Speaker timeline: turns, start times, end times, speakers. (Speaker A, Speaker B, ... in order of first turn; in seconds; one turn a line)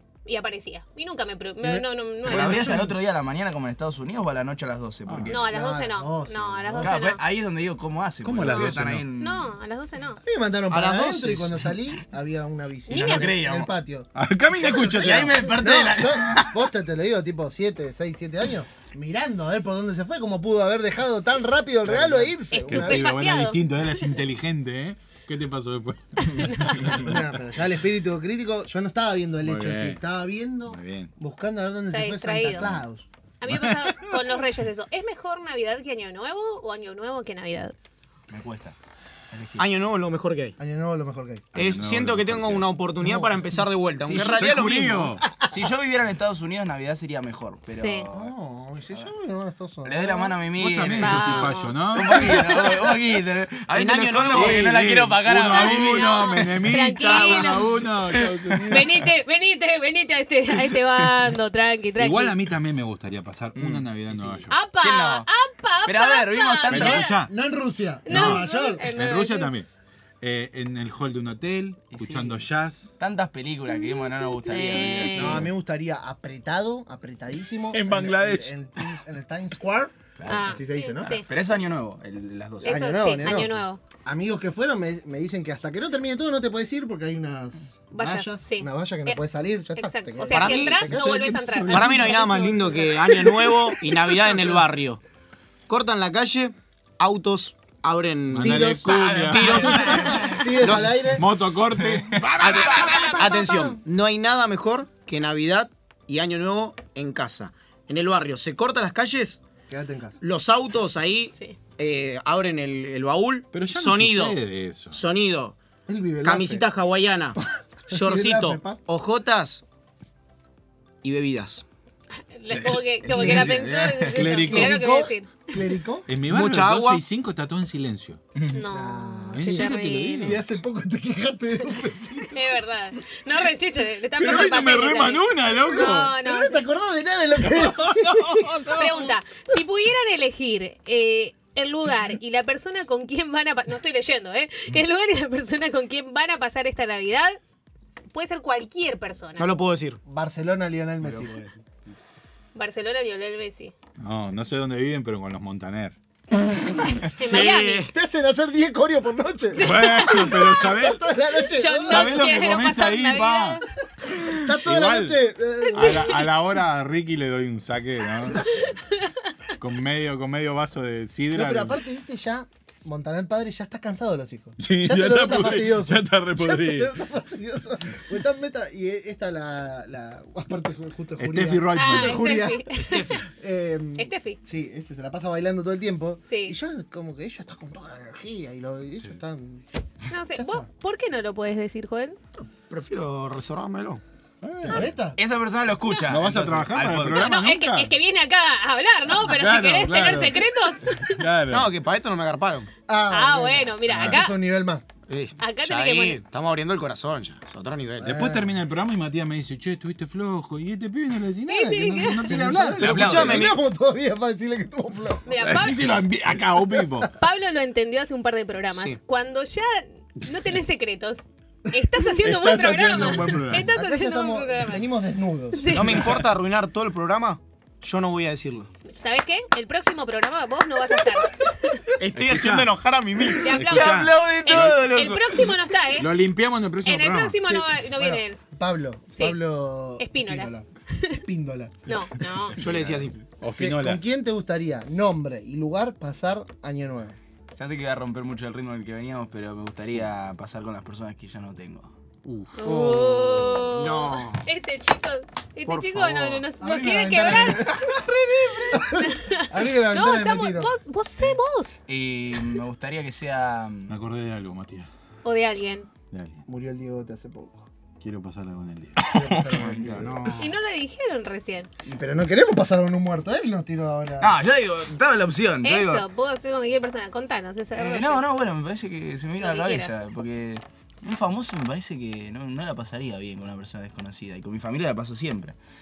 Speaker A: 0.2-2.8
Speaker B: 1.6-2.9
Speaker C: 2.2-5.5
Speaker D: 2.4-2.8
Speaker D: 5.1-5.3
Speaker A: 5.3-7.2
Speaker B: 5.3-7.0
Speaker C: 6.8-9.5
Speaker D: 8.2-9.1
Speaker A: 8.4-10.2
Speaker B: 10.2-23.1
Speaker E: 10.7-11.6
Speaker A: 12.9-13.4
Speaker C: 12.9-13.7
Speaker D: 14.1-15.3
Speaker C: 14.7-16.7
Speaker C: 21.9-22.3
Speaker D: 21.9-27.1
Speaker A: 22.5-23.8
Speaker A: 26.2-27.0
Speaker B: 26.9-33.1
Speaker D: 29.4-30.0
Speaker D: 30.6-31.1
Speaker A: 31.9-32.7
Speaker D: 32.6-32.8
Speaker A: 33.4-37.7
Speaker D: 33.5-34.2
Speaker C: 38.3-38.8
Speaker C: 39.3-39.6
Speaker E: 39.6-40.6
Speaker B: 40.6-41.5
Speaker D: 41.5-42.7
Speaker E: 41.5-45.1
Speaker B: 43.0-43.4
Speaker C: 44.0-44.5
Speaker D: 44.1-45.2
Speaker C: 45.4-49.1
Speaker A: 47.7-48.1
Speaker B: 48.1-50.3
Speaker C: 49.8-58.9
Speaker D: 50.6-52.4
Speaker A: 51.0-52.8
Speaker E: 53.7-54.9
Speaker D: 54.3-58.9
Speaker A: 55.5-57.7
Speaker A: 58.7-62.4
Speaker D: 62.0-64.5
Speaker C: 63.5-65.3
Speaker A: 64.5-67.1
Speaker C: 65.8-67.1
Speaker D: 66.7-67.3
Speaker B: 67.1-68.9
Speaker A: 68.0-69.5
Speaker D: 68.1-69.7
Speaker D: 70.2-72.9
Speaker C: 71.9-72.4
Speaker C: 73.0-75.5
Speaker A: 73.7-75.4
Speaker B: 75.0-81.2
Speaker D: 77.7-79.0
Speaker C: 80.2-83.5
Speaker A: 80.3-81.3
Speaker A: 82.6-83.8
Speaker B: 82.6-91.4
Speaker A: 87.9-89.2
Speaker A: 89.8-92.9
Speaker E: 90.3-90.9
Speaker D: 90.8-92.1
Speaker E: 91.7-95.0
Speaker B: 92.1-92.7
Speaker E: 95.7-98.7
Speaker D: 98.3-102.3
Speaker B: 98.4-101.3
Speaker C: 98.8-100.6
Speaker E: 99.2-101.0
Speaker C: 101.8-103.3
Speaker E: 102.4-109.4
Speaker B: 103.3-103.7
Speaker B: 109.7-110.2
Speaker E: 110.2-114.4
Speaker D: 113.5-115.0
Speaker E: 114.9-115.5
Speaker B: 115.9-116.7
Speaker E: 116.2-117.4
Speaker B: 117.9-118.8
Speaker E: 117.9-119.6
Speaker E: 121.0-121.6
Speaker A: 122.3-125.3
Speaker C: 122.5-124.3
Speaker B: 123.0-126.1
Speaker D: 124.1-124.8
Speaker D: 126.1-128.3
Speaker E: 126.2-127.0
Speaker C: 128.3-128.6
Speaker A: 128.5-130.4
Speaker B: 128.7-132.5
Speaker D: 129.3-130.6
Speaker A: 132.3-136.6
Speaker D: 134.2-136.1
Speaker B: 135.8-138.7
Speaker D: 137.4-139.1
Speaker A: 138.7-147.4
Speaker A: 148.1-149.6
Speaker E: 149.4-150.0
Speaker B: 150.0-151.4
Speaker C: 151.0-151.6
Speaker A: 152.5-153.7
Speaker D: 154.0-155.9
Speaker B: 156.8-162.3
Speaker A: 157.2-157.9
Speaker E: 157.2-157.9
Speaker A: 159.5-160.6
Speaker D: 159.6-161.1
Speaker A: 161.6-163.6
Speaker D: 161.9-163.6
Speaker D: 164.2-165.2
Speaker B: 164.2-166.2
Speaker A: 165.6-166.3
Speaker D: 165.7-168.6
Speaker A: 168.6-169.1
Speaker D: 169.6-171.8
Speaker B: 171.3-189.6
Speaker D: 174.6-176.9
Speaker D: 181.2-182.5
Speaker A: 181.7-183.2
Speaker E: 182.7-183.2
Speaker A: 183.9-184.4
Speaker A: 186.2-186.6
Speaker A: 190.1-192.2
Speaker B: 190.3-190.7
Speaker E: 192.4-194.0
Speaker D: 194.4-194.9
Speaker B: 194.6-195.2
Speaker C: 194.8-197.4
Speaker A: 195.9-196.1
Speaker D: 196.1-197.9
Speaker A: 197.1-201.2
Speaker D: 199.1-201.7
Speaker E: 201.5-202.7
Speaker B: 202.9-204.9
Speaker A: 203.1-204.3
Speaker D: 203.9-204.2
Speaker E: 205.1-208.2
Speaker A: 205.4-206.2
Speaker B: 208.0-208.5
Speaker D: 208.0-213.5
Speaker A: 211.5-212.3
Speaker B: 212.2-215.2
Speaker C: 212.8-213.6
Speaker E: 212.8-213.6
Speaker A: 215.2-216.0
Speaker D: 215.3-217.1
Speaker B: 216.8-217.1
Speaker A: 217.2-224.9
Speaker D: 222.0-223.7
Speaker B: 222.9-225.9
Speaker A: 225.5-226.0
Speaker E: 225.7-228.7
Speaker A: 228.9-231.8
Speaker E: 232.0-233.6
Speaker D: 232.0-234.8
Speaker A: 233.3-236.1
Speaker C: 233.6-235.5
Speaker D: 235.9-237.6
Speaker A: 236.8-238.4
Speaker B: 237.5-240.7
Speaker A: 239.1-239.4
Speaker A: 240.0-241.2
Speaker B: 241.2-241.9
Speaker A: 241.8-242.6
Speaker E: 242.6-243.2
Speaker D: 242.6-244.0
Speaker B: 243.5-247.2
Speaker C: 247.5-251.9
Speaker D: 252.2-252.7
Speaker A: 252.6-257.7
Speaker B: 252.7-253.6
Speaker E: 252.7-253.0
Speaker E: 253.6-254.5
Speaker E: 255.7-256.5
Speaker B: 256.6-260.7
Speaker A: 258.6-261.8
Speaker C: 261.9-263.9
Speaker D: 263.9-264.9
Speaker A: 265.2-265.9
Speaker D: 266.1-266.4
Speaker B: 266.4-267.7
Speaker D: 268.0-269.0
Speaker C: 269.0-270.1
Speaker B: 269.0-270.2
Speaker E: 269.9-270.5
Speaker A: 270.4-271.7
Speaker B: 271.8-274.4
Speaker C: 274.2-276.0
Speaker A: 275.6-278.2
Speaker C: 277.7-285.6
Speaker A: 279.4-280.0